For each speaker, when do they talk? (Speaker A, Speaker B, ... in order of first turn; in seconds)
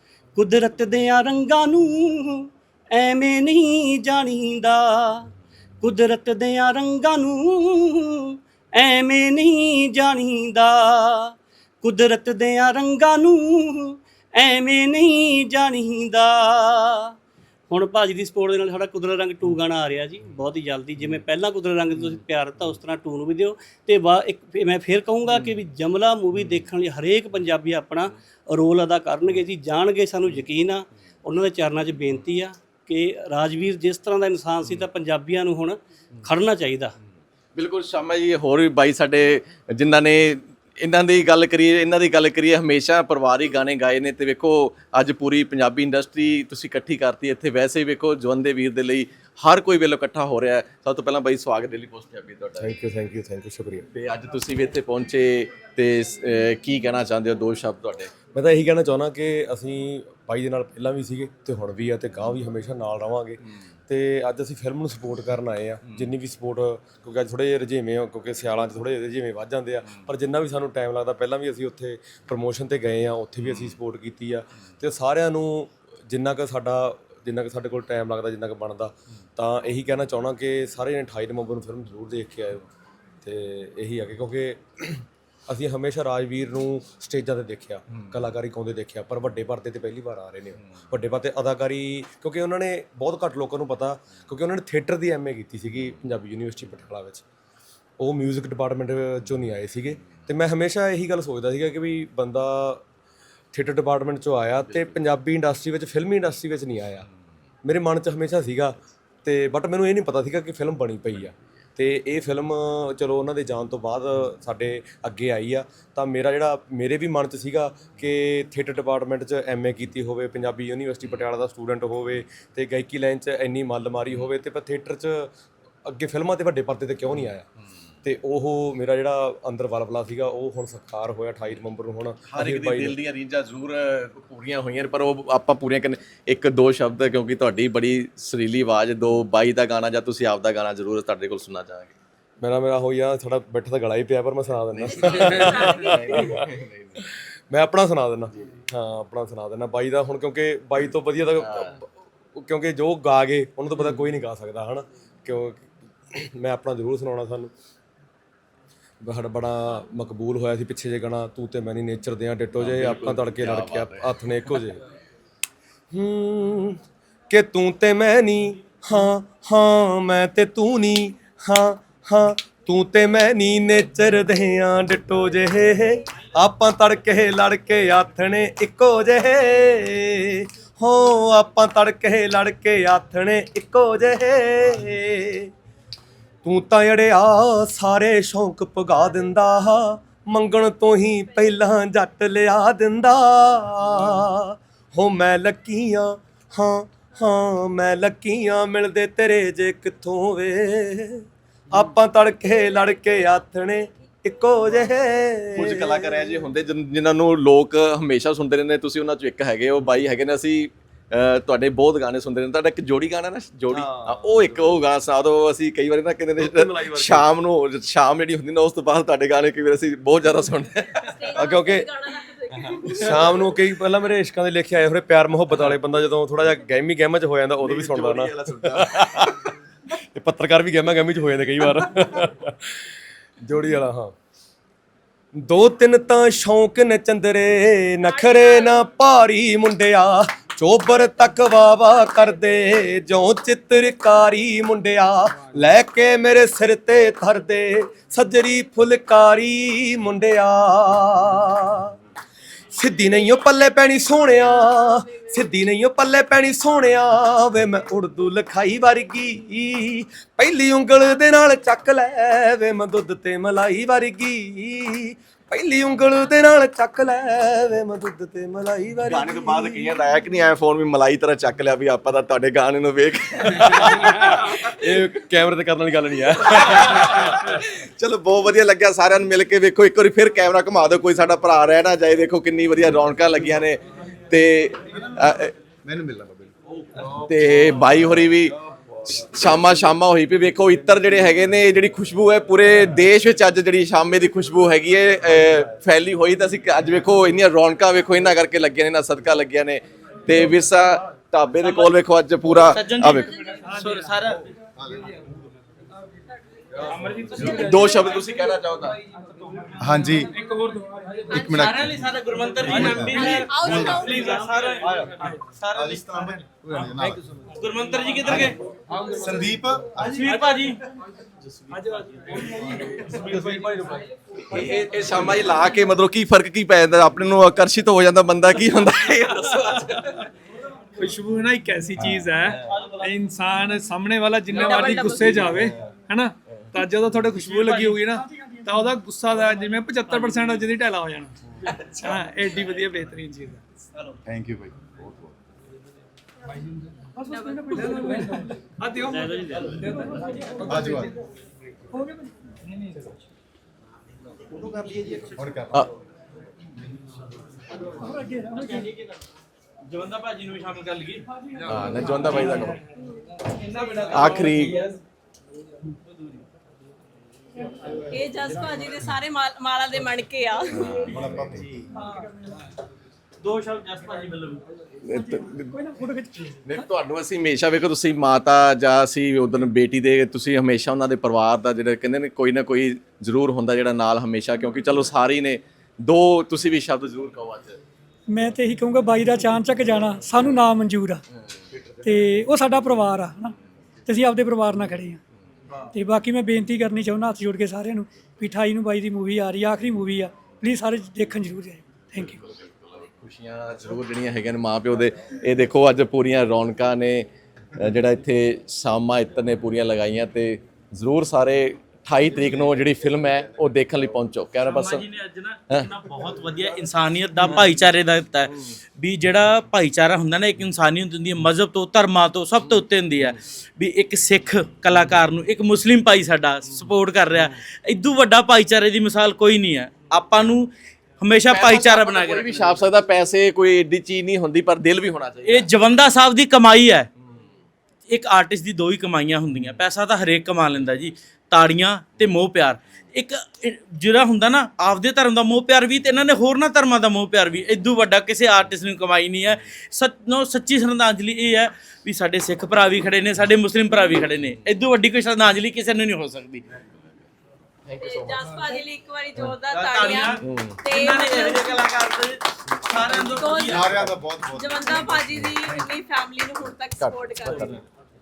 Speaker A: 0.3-5.3, 5.8-17.1, 17.7-36.9, 349.1-349.8
Speaker B: 37.5-52.7, 53.9-58.1, 73.5-73.8, 104.7-104.9, 132.3-141.9, 144.7-147.0, 151.4-151.8, 162.6-164.2, 205.5-221.4, 227.6-228.8, 269.0-274.6, 276.6-285.5, 287.2-288.5, 289.1-303.3, 307.5-309.0, 324.5-330.2, 361.7-362.8, 364.1-364.7, 370.7-371.2, 375.1-375.7, 376.6-387.8, 402.5-415.1, 431.5-435.7, 457.9-458.4, 460.4-460.8, 467.0-467.8
Speaker C: 52.6-53.9, 58.3-82.6, 83.2-97.2, 98.0-102.8, 103.5-107.0, 107.6-125.3, 125.8-127.5, 128.0-133.0, 142.4-146.4, 147.5-151.8, 152.3-157.5, 159.0-164.8, 165.9-185.5, 186.4-206.2, 213.7-214.4, 216.4-217.3, 221.3-221.9, 222.8-229.3, 230.1-232.7, 233.4-234.1, 235.4-251.9, 252.7-269.9, 273.7-277.2
Speaker D: 221.1-222.8, 238.2-238.7, 313.2-314.3, 334.8-335.2, 368.1-370.8, 457.9-461.7, 463.4-463.7, 464.5-467.7
Speaker E: 285.8-286.5, 304.8-305.2, 307.3-307.6, 309.8-310.3, 311.3-312.0, 312.6-314.1, 314.8-315.1, 315.7-317.2, 318.2-318.5, 319.0-320.3, 344.2-345.3, 350.6-351.1, 354.7-355.7, 371.0-371.8, 463.6-465.8
Speaker F: 302.5-304.4, 307.0-307.8, 311.4-316.1, 317.6-318.6, 320.0-320.8, 358.6-358.9, 359.9-361.2, 363.7-364.9, 373.4-374.6, 414.7-432.6, 435.4-437.1, 438.1-456.6, 459.6-464.0
Speaker G: 331.0-341.3, 342.0-343.6, 347.2-349.5
Speaker H: 388.3-391.2, 392.0-393.5, 394.1-395.2, 395.9-402.4